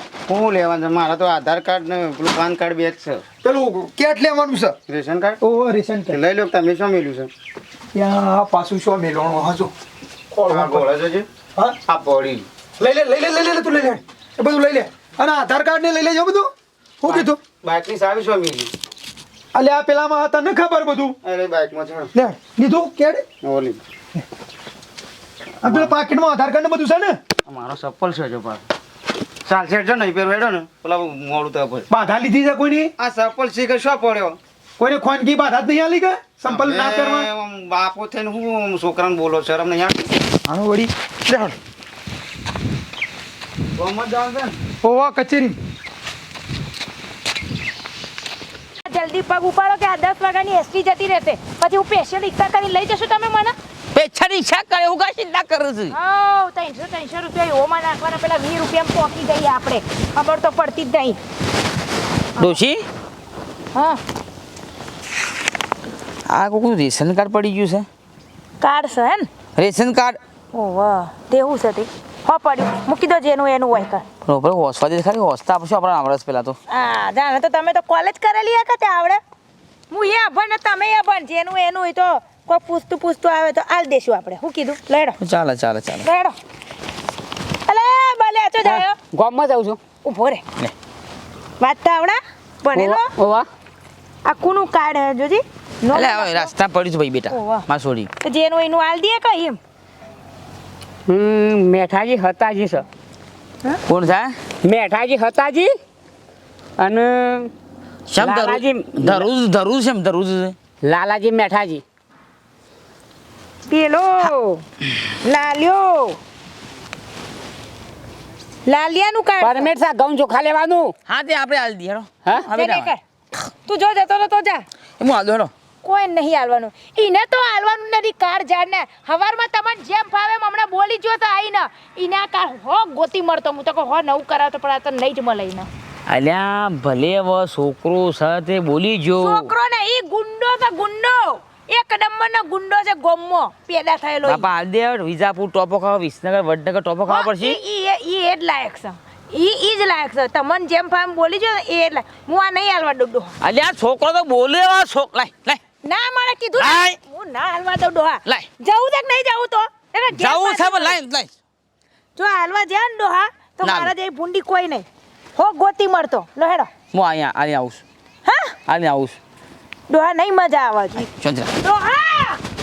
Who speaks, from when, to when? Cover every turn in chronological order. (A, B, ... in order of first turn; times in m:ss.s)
0:00.3-0:03.2 A
0:03.4-0:04.8 B
0:04.9-0:05.4 A
0:05.4-0:06.2 B
0:06.1-0:07.3 A
0:07.9-0:09.7 B
0:10.3-0:11.3 A
0:10.4-0:10.9 B
0:11.8-0:12.4 A
0:12.8-0:16.5 B
0:17.0-0:17.4 B
0:17.0-0:18.7 A
0:19.5-0:21.2 B
0:21.2-0:22.1 A
0:22.1-0:23.2 B
0:23.4-0:23.8 A
0:25.6-0:27.2 B
0:25.6-0:25.9 A
0:27.4-0:28.6 A
0:29.4-0:31.9 A
0:31.9-0:32.9 B
0:33.0-0:34.4 A
0:34.8-0:37.3 B
0:36.4-0:40.1 A
0:40.5-0:41.6 B
0:43.8-0:44.6 A
0:44.8-0:45.6 B
0:48.8-0:53.5 C
0:53.9-0:56.0 D
0:55.9-1:01.2 C
1:02.4-1:02.8 D
1:06.3-1:07.9 D
1:08.6-1:09.3 C
1:09.6-1:10.2 D
1:10.5-1:14.0 C
1:14.2-1:16.6 D
1:16.7-1:19.2 C
1:19.9-1:25.2 C
1:25.2-1:26.1 D
1:26.0-1:26.3 C
1:27.7-1:29.0 C
1:28.6-1:29.8 E
1:30.0-1:30.4 C
1:31.6-1:33.1 C
1:32.7-1:33.4 E
1:34.2-1:36.5 C
1:35.9-1:38.1 D
1:37.3-1:37.6 C
1:38.2-1:39.6 C
1:41.1-1:42.8 E
1:43.9-1:44.3 D
1:44.6-1:45.7 E
1:46.8-1:47.5 E
1:48.1-1:50.6 D
1:48.2-1:49.2 E
1:50.8-1:51.8 E
1:53.7-1:54.6 C
1:55.2-1:56.2 C
1:58.6-1:59.7 C
1:59.4-2:00.9 E
2:01.0-2:02.9 D
2:02.5-2:03.0 C
2:03.5-2:04.6 C
2:05.0-2:05.5 D
2:05.8-2:15.7 C
2:16.1-2:19.5 D
2:19.2-2:24.5 C
2:24.2-2:27.6 D
2:27.1-2:33.3 C
2:33.4-2:35.6 D
2:35.8-2:41.0 C
2:36.6-2:37.0 D
2:40.1-2:41.3 D
2:42.2-2:44.8 C
2:43.6-2:43.9 D
2:45.4-2:46.7 C
2:46.9-2:47.8 D
2:48.2-2:48.5 C
2:48.7-2:49.2 D
2:49.9-2:51.1 C
2:51.0-2:51.5 D
2:51.6-2:52.4 C